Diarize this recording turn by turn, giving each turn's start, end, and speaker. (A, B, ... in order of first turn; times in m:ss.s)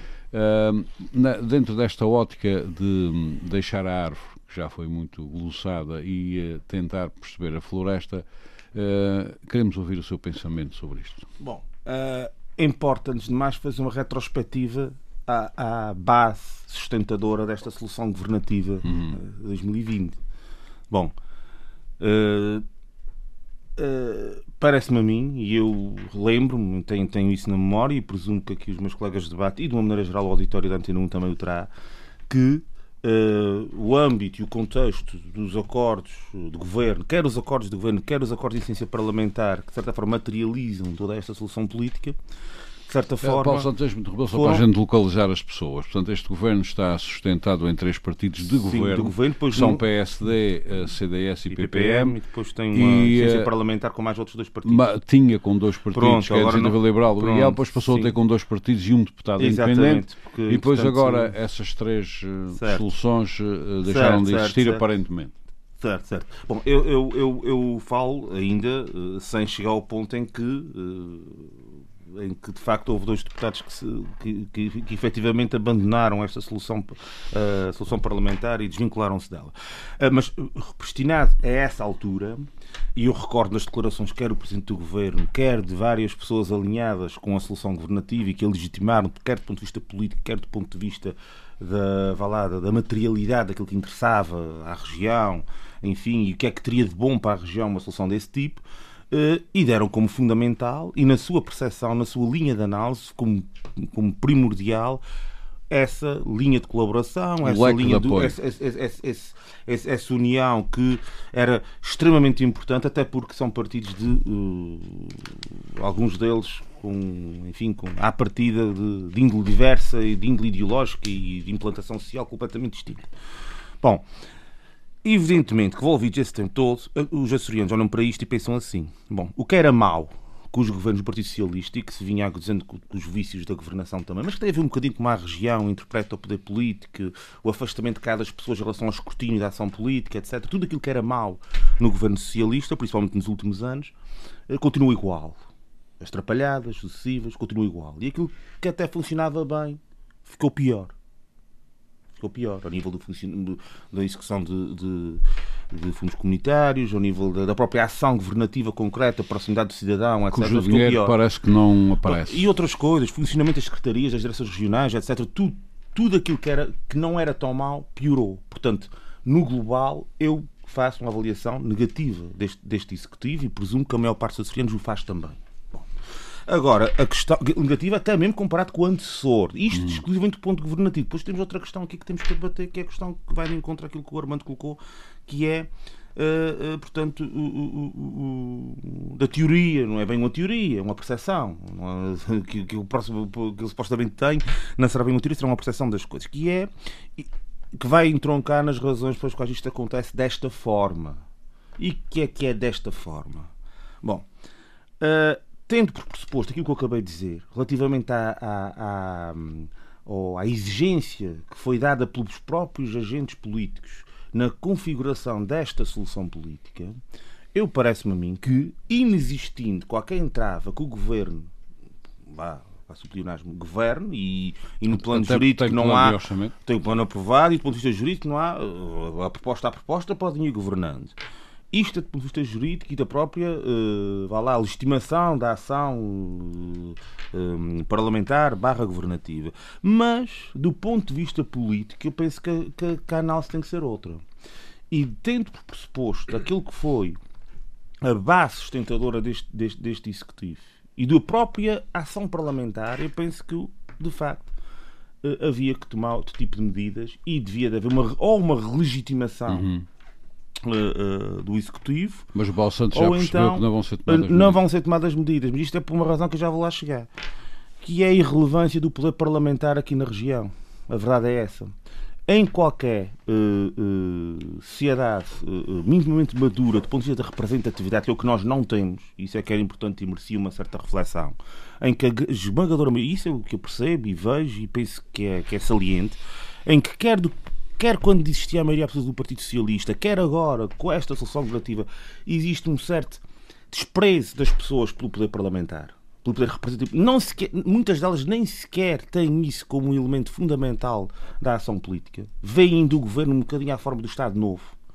0:00.3-0:11.2 A
0:11.4-0:20.2 B
0:18.9-0:19.2 A
0:22.0-0:22.6 B
0:23.8-0:31.7 B
0:32.3-0:42.2 B
0:42.9-0:43.7 B
0:43.2-0:52.2 A
0:44.3-0:44.6 B
0:48.5-0:49.8 B
0:51.5-0:54.9 B
0:52.7-0:53.5 A
0:54.6-1:05.3 A
0:55.9-0:58.1 B
0:59.4-1:01.3 B
1:02.5-1:02.8 B
1:03.8-1:04.9 B
1:05.8-1:11.5 B
1:12.1-1:45.0 B
1:45.7-2:03.1 B
1:47.4-1:48.4 A
2:05.0-2:23.9 B
2:24.5-2:25.4 B
2:26.0-2:30.9 B
2:32.2-2:41.1 B
2:40.3-2:42.4 A
2:42.0-2:55.8 B
2:56.5-3:21.2 B
3:21.8-3:23.5 B
3:24.0-3:24.3 B
3:25.0-3:37.0 B
3:37.5-3:41.5 B
3:42.3-3:51.2 B
3:45.0-3:46.5 A
3:51.7-4:04.2 B
4:04.9-4:07.2 B
4:08.0-4:14.5 B
4:15.2-4:19.7 B
4:19.5-4:19.8 A
4:20.6-4:22.2 B
4:22.3-4:24.6 A
4:22.9-4:27.1 B
4:27.8-4:31.7 B
4:32.3-5:04.7 B